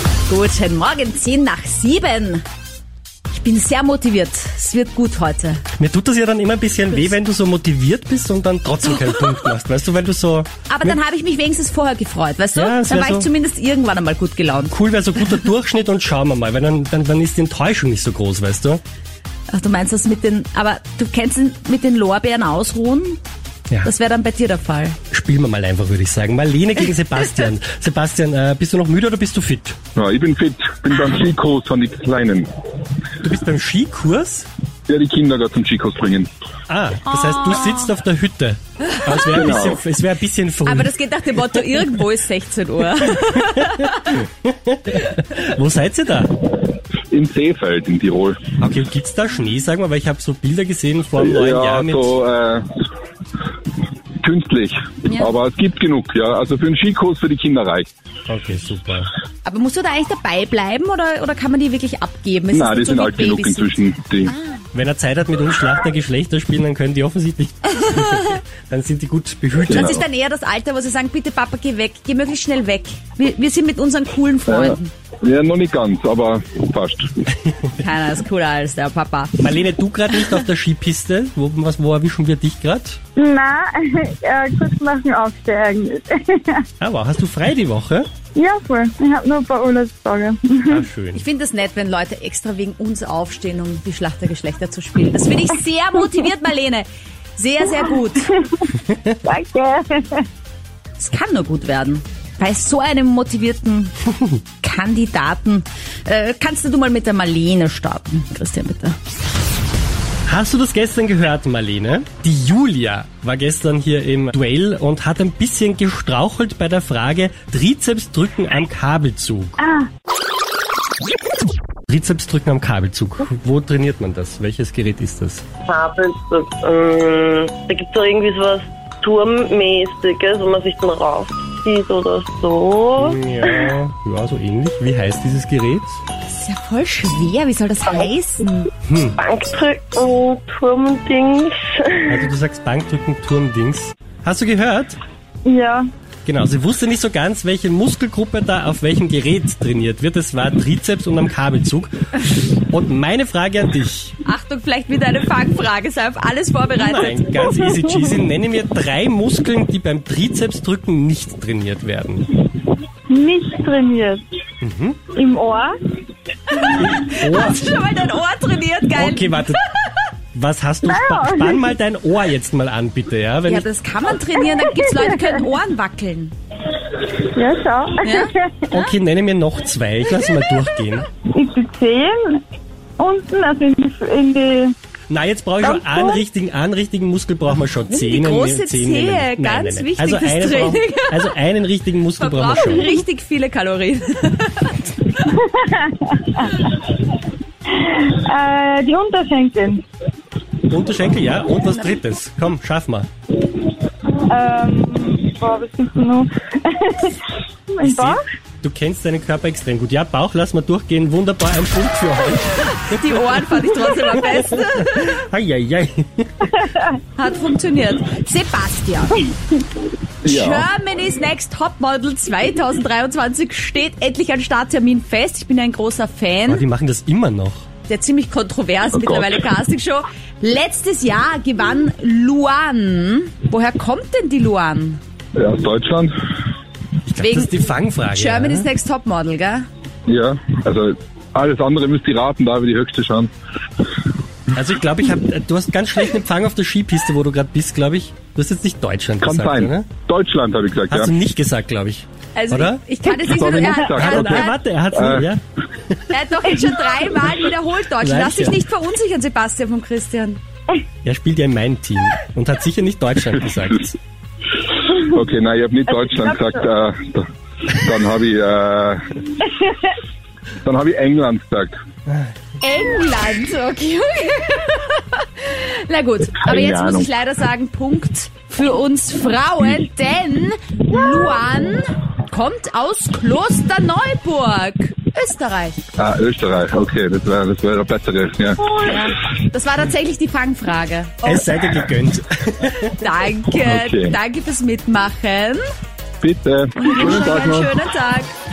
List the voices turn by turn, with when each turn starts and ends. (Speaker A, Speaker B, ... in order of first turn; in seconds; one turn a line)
Speaker A: 0.3-2.4
Speaker A: 3.3-5.6
Speaker B: 5.8-11.0
Speaker A: 8.9-9.3
Speaker A: 10.7-15.4
Speaker B: 12.5-13.3
Speaker B: 14.7-18.8
Speaker A: 19.5-23.2
Speaker A: 23.8-25.0
Speaker B: 25.1-29.8
Speaker C: 29.9-32.5
Speaker B: 33.2-34.5
Speaker C: 34.9-36.3
Speaker B: 36.7-40.9
Speaker A: 37.1-37.9
Speaker A: 38.9-39.3
Speaker C: 39.2-39.8
Speaker A: 40.6-44.2
Speaker B: 43.3-46.3
Speaker C: 47.1-48.5
Speaker B: 48.6-52.1
Speaker C: 51.2-52.7
Speaker C: 54.2-57.9
Speaker A: 55.1-55.3
Speaker B: 58.3-59.1
Speaker A: 59.4-63.7
Speaker C: 62.5-64.3
Speaker A: 64.3-64.6
Speaker B: 64.7-70.0
Speaker A: 67.9-68.4
Speaker C: 69.7-70.0
Speaker A: 69.7-74.9
Speaker C: 74.5-77.1
Speaker A: 77.8-79.5
Speaker B: 79.4-83.0
Speaker D: 83.2-86.6
Speaker B: 86.8-88.1
Speaker D: 88.3-90.8
Speaker B: 90.7-91.2
Speaker A: 91.1-98.4
Speaker D: 99.2-100.2
Speaker A: 101.0-103.9
Speaker A: 104.6-109.0
Speaker B: 110.3-119.6
Speaker D: 119.6-119.9
Speaker B: 121.9-125.4
Speaker E: 125.7-133.7
Speaker B: 133.0-136.0
Speaker A: 136.3-138.7
Speaker B: 138.8-139.2
Speaker E: 139.2-142.3
Speaker B: 142.1-145.0
Speaker D: 145.4-145.9
Speaker B: 146.2-154.2
Speaker A: 154.2-157.4
Speaker B: 156.8-162.4
Speaker D: 163.1-164.2
Speaker B: 164.6-165.0
Speaker D: 165.1-165.7
Speaker A: 166.5-169.6
Speaker B: 166.7-167.6
Speaker B: 168.9-169.6
Speaker B: 170.3-173.7
Speaker D: 170.9-171.6
Speaker A: 173.4-176.3
Speaker D: 177.3-178.6
Speaker A: 178.0-178.9
Speaker B: 178.7-181.1
Speaker D: 181.3-182.4
Speaker D: 183.0-184.7
Speaker B: 185.1-192.9
Speaker D: 185.6-186.1
Speaker A: 187.8-191.3
Speaker A: 192.2-195.3
Speaker D: 195.4-196.8
Speaker D: 197.7-199.8
Speaker B: 200.6-203.1
Speaker D: 204.3-208.2
Speaker B: 207.8-213.0
Speaker A: 212.6-215.2
Speaker B: 214.2-216.4
Speaker D: 216.6-216.9
Speaker A: 217.2-219.3
Speaker C: 220.2-220.7
Speaker A: 220.2-226.6
Speaker B: 226.5-227.7
Speaker A: 227.9-235.0
Speaker C: 228.9-229.5
Speaker C: 235.3-236.1
Speaker B: 237.1-238.7
Speaker A: 237.2-237.5
Speaker A: 238.1-239.6
Speaker C: 240.1-243.3
Speaker B: 244.5-249.9
Speaker C: 249.2-251.1
Speaker B: 250.9-252.8
Speaker A: 252.3-254.6
Speaker C: 253.2-255.3
Speaker B: 253.9-256.0
Speaker A: 256.1-260.4
Speaker B: 258.0-258.6
Speaker B: 261.0-264.0
Speaker C: 264.9-269.2
Speaker C: 270.6-271.8
Speaker A: 272.6-285.8
Speaker C: 276.4-277.1
Speaker C: 285.9-288.7
Speaker A: 288.8-291.5
Speaker B: 291.2-292.9
Speaker A: 292.8-295.6
Speaker C: 293.6-294.2
Speaker C: 296.2-297.7
Speaker A: 296.8-298.3